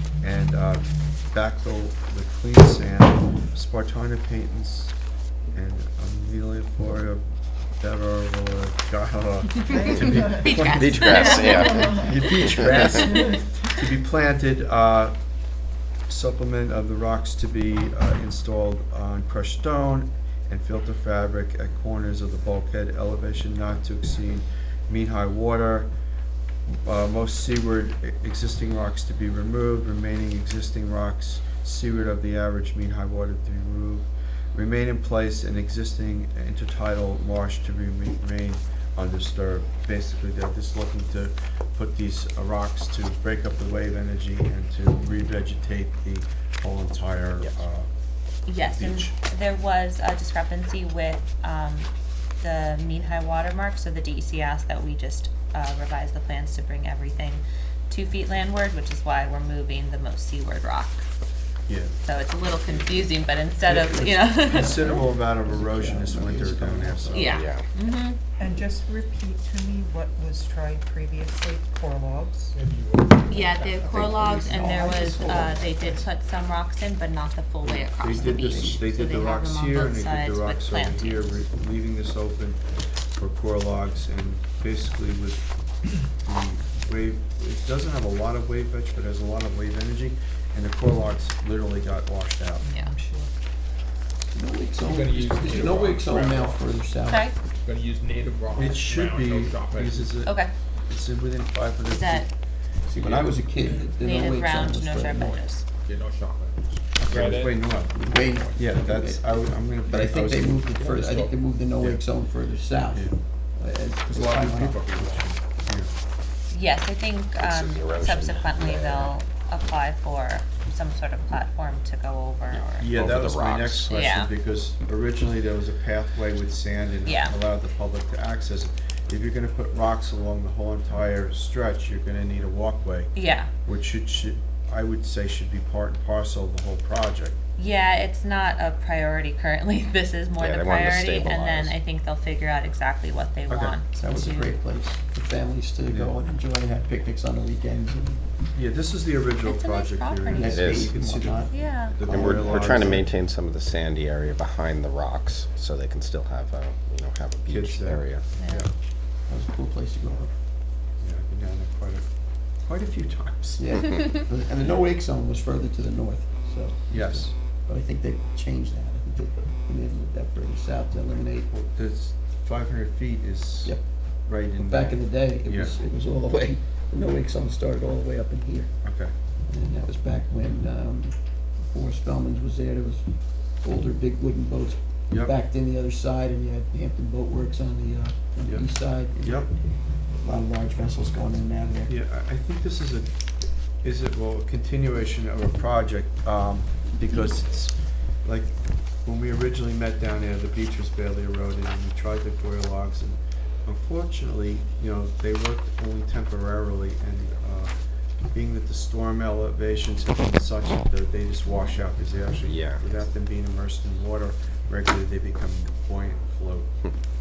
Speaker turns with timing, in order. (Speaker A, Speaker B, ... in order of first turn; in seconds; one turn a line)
Speaker A: 0.2-4.9
Speaker A: 5.5-7.2
Speaker A: 7.8-15.1
Speaker B: 9.7-10.5
Speaker C: 10.2-11.9
Speaker D: 10.7-13.2
Speaker B: 11.5-12.1
Speaker B: 12.7-13.6
Speaker A: 16.1-25.9
Speaker A: 26.8-47.9
Speaker C: 48.5-51.9
Speaker A: 48.6-49.1
Speaker C: 52.4-61.0
Speaker A: 61.7-62.0
Speaker C: 62.0-64.9
Speaker A: 62.6-63.1
Speaker A: 63.6-67.4
Speaker E: 64.5-67.3
Speaker C: 67.1-68.2
Speaker D: 67.3-67.7
Speaker B: 68.4-72.5
Speaker F: 72.5-74.4
Speaker C: 73.3-81.4
Speaker E: 73.9-76.0
Speaker A: 77.7-82.6
Speaker E: 78.0-78.8
Speaker A: 83.2-85.4
Speaker A: 86.1-92.6
Speaker B: 92.7-93.3
Speaker E: 94.3-97.3
Speaker F: 94.8-96.6
Speaker C: 97.1-97.3
Speaker F: 97.5-100.2
Speaker A: 98.5-102.3
Speaker C: 100.2-100.5
Speaker C: 101.9-102.3
Speaker E: 102.9-105.4
Speaker F: 102.9-103.9
Speaker C: 104.0-105.6
Speaker F: 105.8-107.6
Speaker A: 107.0-107.9
Speaker E: 107.9-114.9
Speaker A: 108.5-110.6
Speaker F: 110.7-111.4
Speaker F: 114.1-115.4
Speaker C: 116.5-123.0
Speaker D: 117.4-119.1
Speaker D: 122.5-124.1
Speaker A: 122.8-133.1
Speaker C: 123.9-124.3
Speaker C: 127.0-127.3
Speaker C: 133.1-133.5
Speaker A: 133.6-137.4
Speaker C: 137.6-144.5
Speaker D: 140.4-141.8
Speaker A: 143.5-143.8
Speaker E: 144.0-148.3
Speaker A: 145.9-146.2
Speaker A: 148.5-153.1
Speaker C: 149.4-150.6
Speaker E: 150.2-152.8
Speaker D: 150.4-150.9
Speaker C: 151.5-152.0
Speaker D: 152.0-158.2
Speaker A: 157.4-158.7
Speaker C: 158.4-158.7
Speaker E: 159.3-160.3
Speaker A: 161.0-162.1
Speaker A: 162.6-163.7
Speaker E: 163.6-171.5
Speaker A: 166.9-167.3
Speaker A: 171.5-173.8
Speaker A: 174.3-175.8
Speaker E: 174.6-178.7
Speaker A: 178.8-179.1
Speaker E: 179.5-183.1
Speaker E: 183.6-189.5
Speaker A: 185.1-185.3
Speaker A: 189.2-189.5
Speaker E: 190.2-191.9
Speaker A: 191.9-193.1
Speaker A: 193.8-197.7
Speaker A: 198.2-207.7
Speaker A: 208.3-216.7
Speaker D: 212.4-212.8